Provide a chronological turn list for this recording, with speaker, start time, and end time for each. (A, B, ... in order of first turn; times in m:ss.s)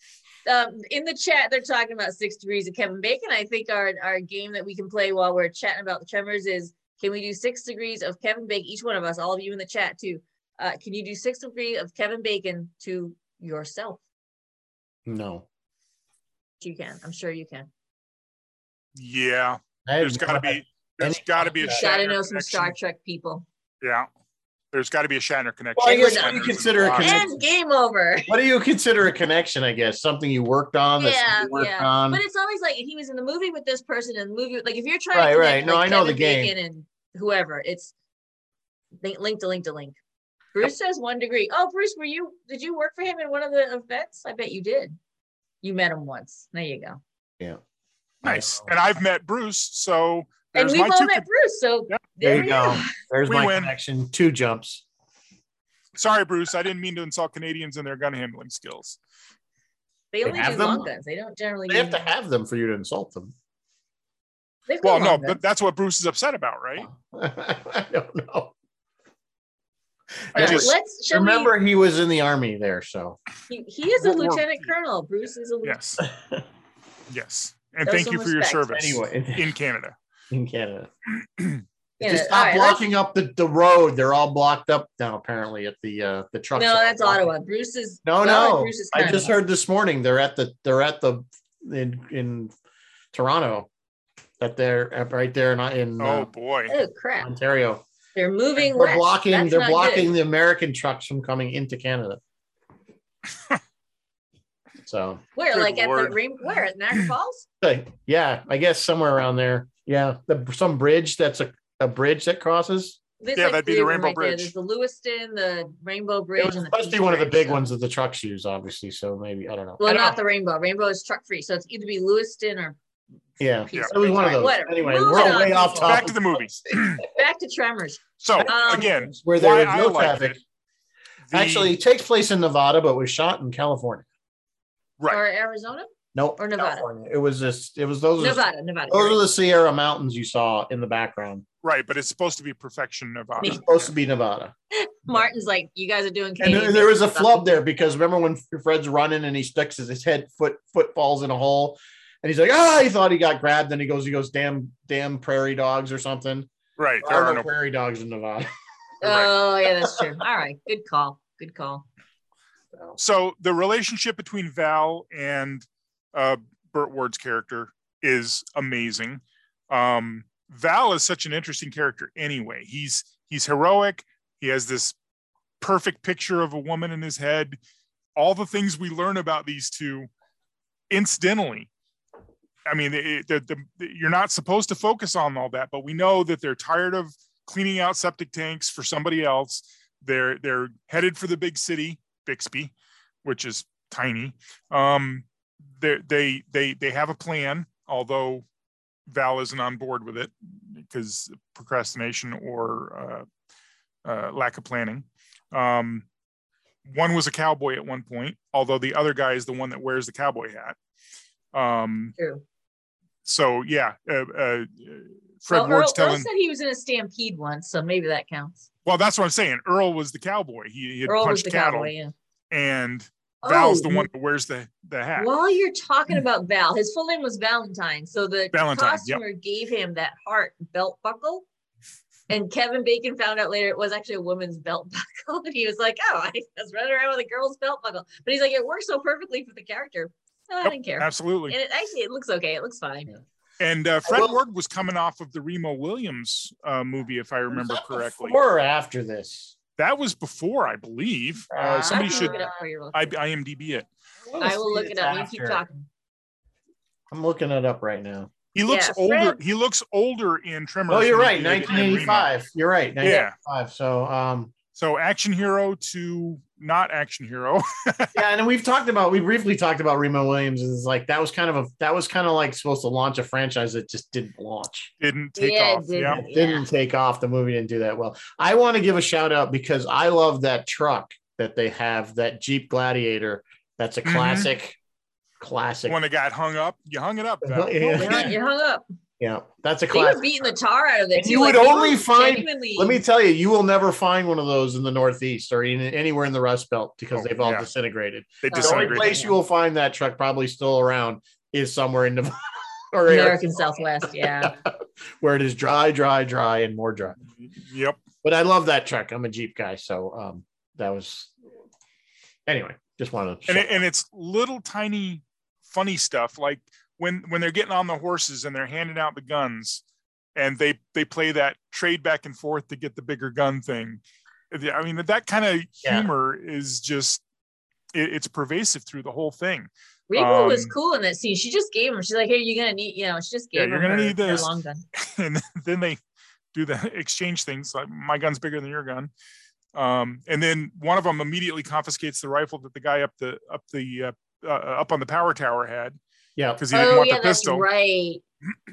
0:00.4-0:14.0 A
0:15.0-0:15.4 B
0:16.6-0:17.7 A
0:19.0-0:22.7 C
0:19.8-0:21.9 B
0:21.6-0:23.4 A
0:23.8-0:24.1 C
0:24.7-0:27.3 C
0:25.8-0:27.4 B
0:25.8-0:26.4 A
0:27.0-0:28.3 A
0:28.2-0:32.2 B
0:31.0-0:37.9 A
0:35.1-0:36.5 B
0:39.0-0:40.0 A
0:40.5-0:45.0 A
0:45.6-0:47.0 A
0:48.2-0:51.2 C
0:48.2-0:48.7 B
0:50.5-0:52.9 A
0:52.2-0:54.8 B
0:53.3-0:53.7 C
0:56.0-0:59.0 C
1:00.1-1:02.1 A
1:00.2-1:00.9 B
1:01.7-1:03.3 B
1:04.7-1:05.4 A
1:04.8-1:06.9 C
1:06.8-1:08.5 B
1:10.3-1:13.2 B
1:10.3-1:10.7 C
1:10.3-1:11.5 A
1:13.5-1:15.8 A
1:14.0-1:14.7 C
1:15.6-1:16.0 C
1:16.0-1:16.4 B
1:17.1-1:20.0 C
1:17.8-1:18.7 A
1:18.7-1:19.5 B
1:20.3-1:20.9 B
1:22.0-1:22.8 A
1:22.0-1:27.3 B
1:26.5-1:29.4 A
1:28.0-1:32.5 B
1:33.1-1:33.7 B
1:34.4-1:36.3 B
1:36.0-1:36.7 C
1:36.7-1:37.3 A
1:37.2-1:37.8 B
1:38.1-1:40.1 A
1:38.6-1:42.2 B
1:44.8-1:45.2 B
1:45.3-1:47.4 A
1:45.5-1:46.2 C
1:47.6-1:53.0 B
1:53.2-1:57.6 A
1:53.3-1:54.5 C
1:56.4-2:00.2 B
1:59.8-2:02.8 A
2:03.4-2:07.0 B
2:03.7-2:06.1 A
2:05.1-2:07.0 C
2:07.1-2:08.9 A
2:08.2-2:10.4 C
2:08.3-2:10.4 B
2:11.3-2:11.7 C
2:11.3-2:14.0 B
2:15.1-2:16.8 A
2:16.1-2:21.4 B
2:18.2-2:19.2 A
2:21.6-2:23.9 C
2:23.4-2:24.5 B
2:24.7-2:27.5 A
2:26.4-2:36.5 B
2:36.8-2:37.5 C
2:37.0-2:38.5 B
2:39.0-2:41.8 A
2:39.0-2:39.3 C
2:43.0-2:55.0 C
2:55.6-2:57.6 C
2:58.2-3:00.1 C
3:00.9-3:01.7 C
3:02.6-3:12.7 C
3:13.2-3:15.2 C
3:15.8-3:18.4 C
3:19.1-3:23.2 C
3:24.0-3:26.0 C
3:26.8-3:30.8 C
3:31.5-3:32.1 C
3:32.2-3:32.4 A
3:33.2-3:36.3 C
3:35.5-3:38.6 A
3:38.8-3:41.9 C
3:41.1-3:42.1 A
3:42.5-3:45.3 C
3:43.4-3:44.1 A
3:45.2-3:51.4 A
3:48.5-3:49.2 C
3:52.3-4:03.1 A
4:00.6-4:01.6 C
4:03.6-4:08.4 C
4:04.0-4:04.4 B
4:07.5-4:09.5 B
4:09.8-4:13.9 C
4:11.5-4:12.5 B
4:11.9-4:13.1 A
4:14.3-4:15.6 B
4:14.4-4:15.9 A
4:17.1-4:18.3 B
4:18.5-4:22.3 C
4:18.7-4:19.4 A
4:20.9-4:24.5 B
4:23.0-4:23.3 C
4:23.0-4:23.3 A
4:24.7-4:28.2 C
4:28.1-4:34.9 B
4:35.0-4:36.2 C
4:35.4-4:36.6 A
4:36.0-4:44.8 B
4:44.0-4:44.5 C
4:45.4-4:46.0 B
4:45.9-4:48.3 C
4:47.4-4:48.4 B
4:47.9-4:48.8 A
4:49.2-4:50.5 B
4:49.9-4:53.0 A
4:51.1-5:07.2 B
4:57.2-4:57.7 C
4:58.4-4:59.2 C
4:58.5-4:59.3 A
5:03.1-5:04.6 A
5:07.4-5:08.0 C
5:08.2-5:11.3 B
5:12.5-5:13.8 B
5:13.5-5:19.8 C
5:20.4-5:27.2 C
5:25.8-5:26.1 B
5:27.9-5:30.7 C
5:30.1-5:34.8 A
5:33.5-5:36.0 C
5:36.5-5:39.1 C
5:39.7-5:46.0 C
5:46.4-5:46.6 B
5:46.6-5:47.6 C
5:46.7-5:48.2 A